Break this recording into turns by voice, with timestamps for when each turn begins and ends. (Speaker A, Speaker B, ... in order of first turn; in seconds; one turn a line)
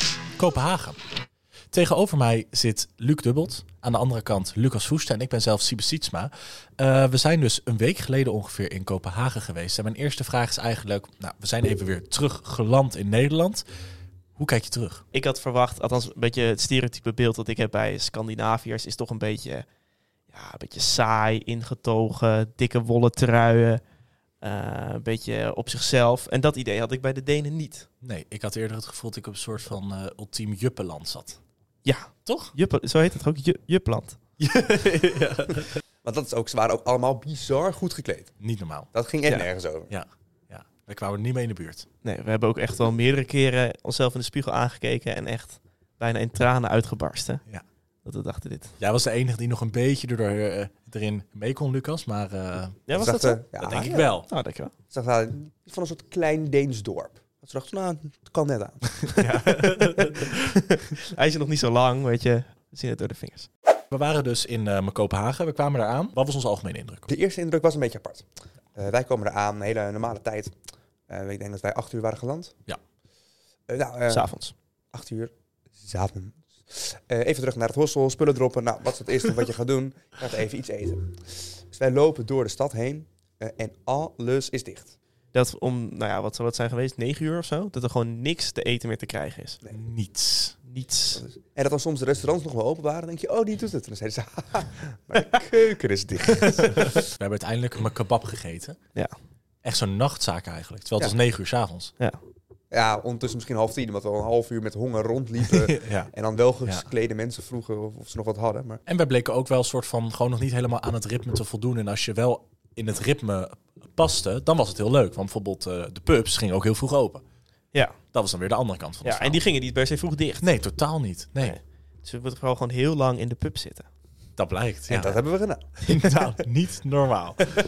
Speaker A: 0.3-1.0
Speaker A: 1.7-13.6
Speaker A: 14.3-15.0
Speaker B: 15.1-19.6
Speaker B: 20.3-23.8
Speaker B: 24.4-27.9
Speaker A: 28.0-31.4
Speaker B: 31.8-34.2
Speaker A: 32.2-32.5
Speaker A: 34.4-35.7
Speaker C: 36.0-38.3
Speaker A: 38.4-38.9
Speaker C: 38.9-39.9
Speaker A: 39.9-41.9
Speaker B: 42.0-47.4
Speaker B: 48.0-48.7
Speaker A: 48.8-52.8
Speaker B: 52.9-54.7
Speaker C: 52.9-54.1
Speaker A: 53.6-54.3
Speaker C: 54.9-59.1
Speaker B: 59.1-63.5
Speaker A: 59.2-60.4
Speaker A: 63.9-67.1
Speaker C: 67.1-70.5
Speaker C: 71.1-72.6
Speaker C: 73.7-74.3
Speaker B: 74.1-74.5
Speaker C: 74.9-84.9
Speaker B: 85.3-89.6
Speaker A: 89.7-90.5
Speaker B: 90.7-91.2
Speaker C: 91.1-97.0
Speaker A: 96.3-98.8
Speaker A: 99.6-101.9
Speaker C: 102.7-108.8
Speaker A: 105.6-106.1
Speaker A: 108.8-117.2
Speaker A: 118.1-119.4
Speaker B: 119.0-120.5
Speaker A: 120.4-121.5
Speaker B: 121.4-123.9
Speaker A: 124.3-125.2
Speaker C: 124.9-125.7
Speaker A: 125.8-127.4